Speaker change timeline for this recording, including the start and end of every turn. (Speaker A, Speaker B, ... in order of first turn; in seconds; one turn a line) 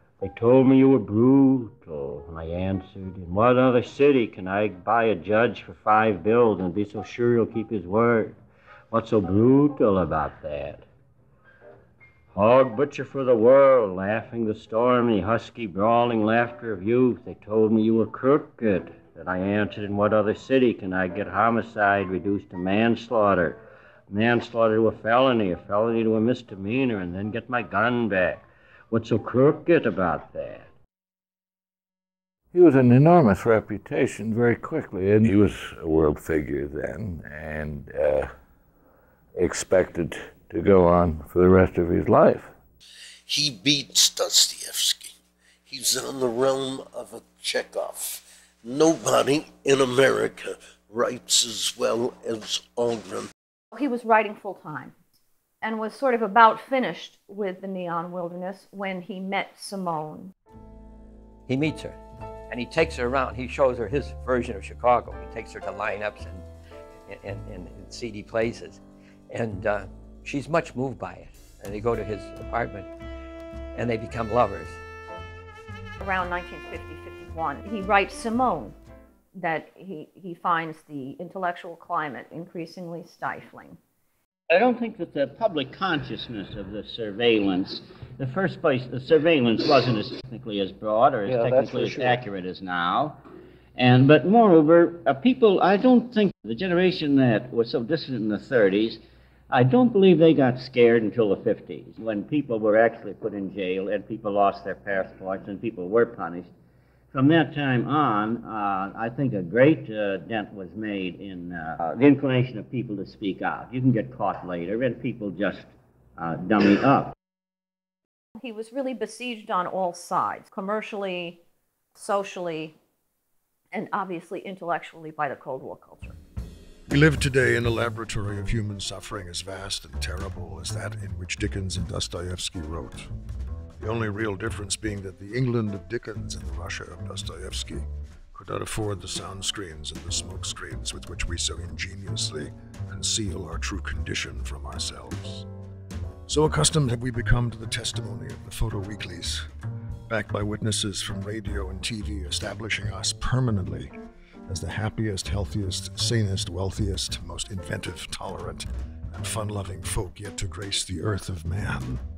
Speaker A: 0.2-8.4
Speaker A: 8.9-10.8
Speaker A: 12.3-30.7
Speaker B: 32.5-38.3
Speaker B: 39.4-42.5
Speaker C: 43.3-45.1
Speaker C: 45.7-53.3
Speaker D: 53.7-55.0
Speaker D: 55.6-60.3
Speaker E: 61.5-62.0
Speaker E: 62.5-66.5
Speaker E: 67.1-68.8
Speaker E: 69.3-72.9
Speaker E: 73.8-74.8
Speaker D: 76.0-78.8
Speaker D: 79.3-83.8
Speaker A: 84.6-93.1
Speaker A: 93.8-99.0
Speaker A: 99.5-106.5
Speaker A: 107.1-117.1
Speaker D: 118.4-121.4
Speaker D: 122.0-122.8
Speaker D: 123.7-126.2
Speaker F: 126.9-133.1
Speaker F: 133.8-145.5
Speaker F: 146.3-149.5
Speaker F: 150.1-153.9
Speaker F: 154.5-162.0